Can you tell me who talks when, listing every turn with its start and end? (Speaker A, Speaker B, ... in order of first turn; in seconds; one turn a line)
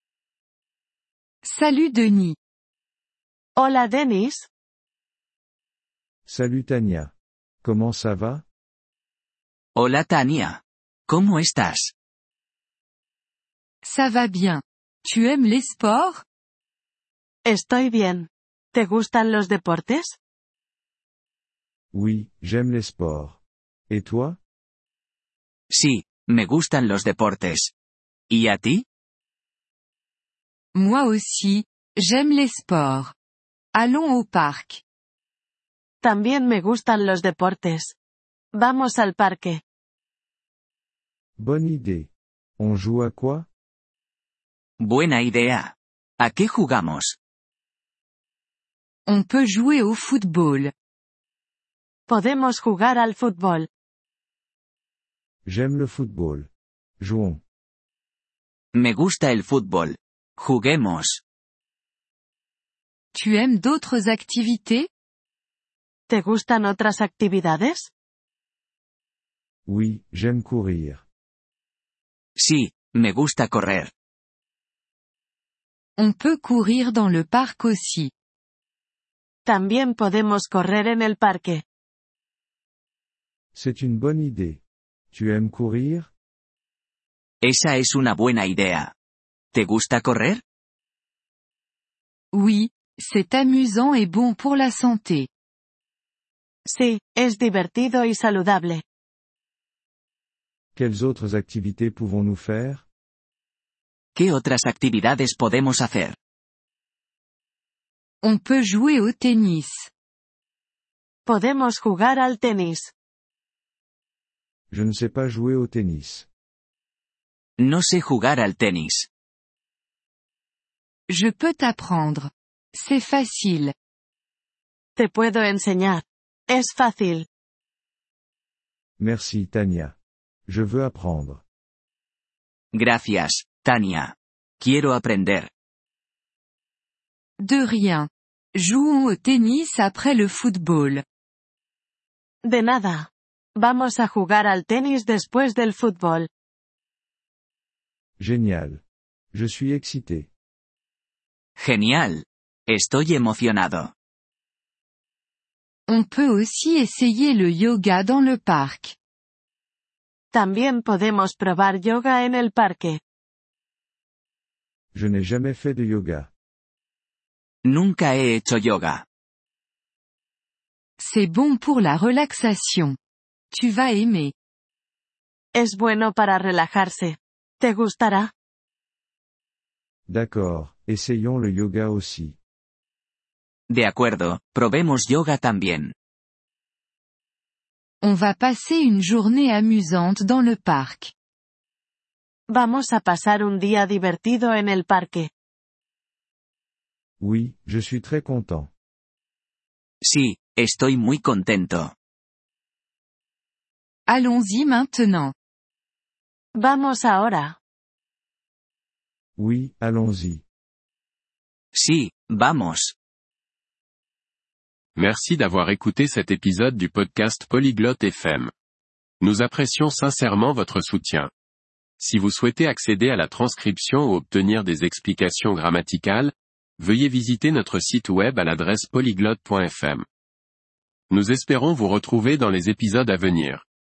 Speaker A: 1.4-2.4
Speaker B: 3.6-4.5
Speaker C: 6.3-8.4
Speaker D: 9.8-11.9
Speaker A: 13.8-16.2
Speaker B: 17.4-20.2
Speaker C: 21.9-24.4
Speaker D: 25.7-27.7
Speaker D: 28.3-28.9
Speaker A: 30.7-33.1
Speaker A: 33.7-34.8
Speaker B: 36.0-38.0
Speaker B: 38.5-39.6
Speaker C: 41.4-43.5
Speaker D: 44.8-47.2
Speaker A: 49.1-50.7
Speaker B: 52.1-53.7
Speaker C: 55.5-56.5
Speaker C: 57.0-57.4
Speaker D: 58.7-61.2
Speaker A: 63.1-64.9
Speaker B: 66.1-67.9
Speaker C: 69.7-71.0
Speaker D: 72.4-73.9
Speaker A: 76.0-78.1
Speaker B: 79.5-81.6
Speaker C: 83.5-86.1
Speaker D: 87.4-88.9
Speaker D: 89.5-90.4
Speaker A: 92.3-95.3
Speaker B: 96.7-98.8
Speaker C: 100.8-102.8
Speaker D: 104.2-106.2
Speaker A: 108.2-109.9
Speaker B: 111.3-112.9
Speaker C: 114.7-116.3
Speaker D: 117.6-119.1
Speaker A: 121.1-123.7
Speaker B: 125.0-127.3
Speaker C: 129.0-130.0
Speaker C: 130.5-131.4
Speaker D: 132.7-135.5
Speaker A: 137.4-141.0
Speaker B: 142.4-146.3
Speaker C: 148.2-148.8
Speaker C: 149.3-150.3
Speaker D: 151.6-153.9
Speaker A: 155.9-159.0
Speaker B: 160.3-163.0
Speaker C: 164.9-166.3
Speaker D: 167.7-169.1
Speaker A: 171.0-173.0
Speaker A: 173.5-174.3
Speaker B: 175.5-178.3
Speaker C: 180.1-182.4
Speaker D: 183.7-185.9
Speaker A: 188.0-191.1
Speaker B: 192.5-195.3
Speaker C: 197.2-198.7
Speaker D: 200.0-201.9
Speaker A: 204.1-205.3
Speaker B: 206.6-207.6
Speaker C: 209.4-210.4
Speaker D: 211.7-212.9
Speaker E: 215.0-218.5
Speaker E: 219.2-221.3
Speaker E: 222.0-230.1
Speaker E: 231.1-233.6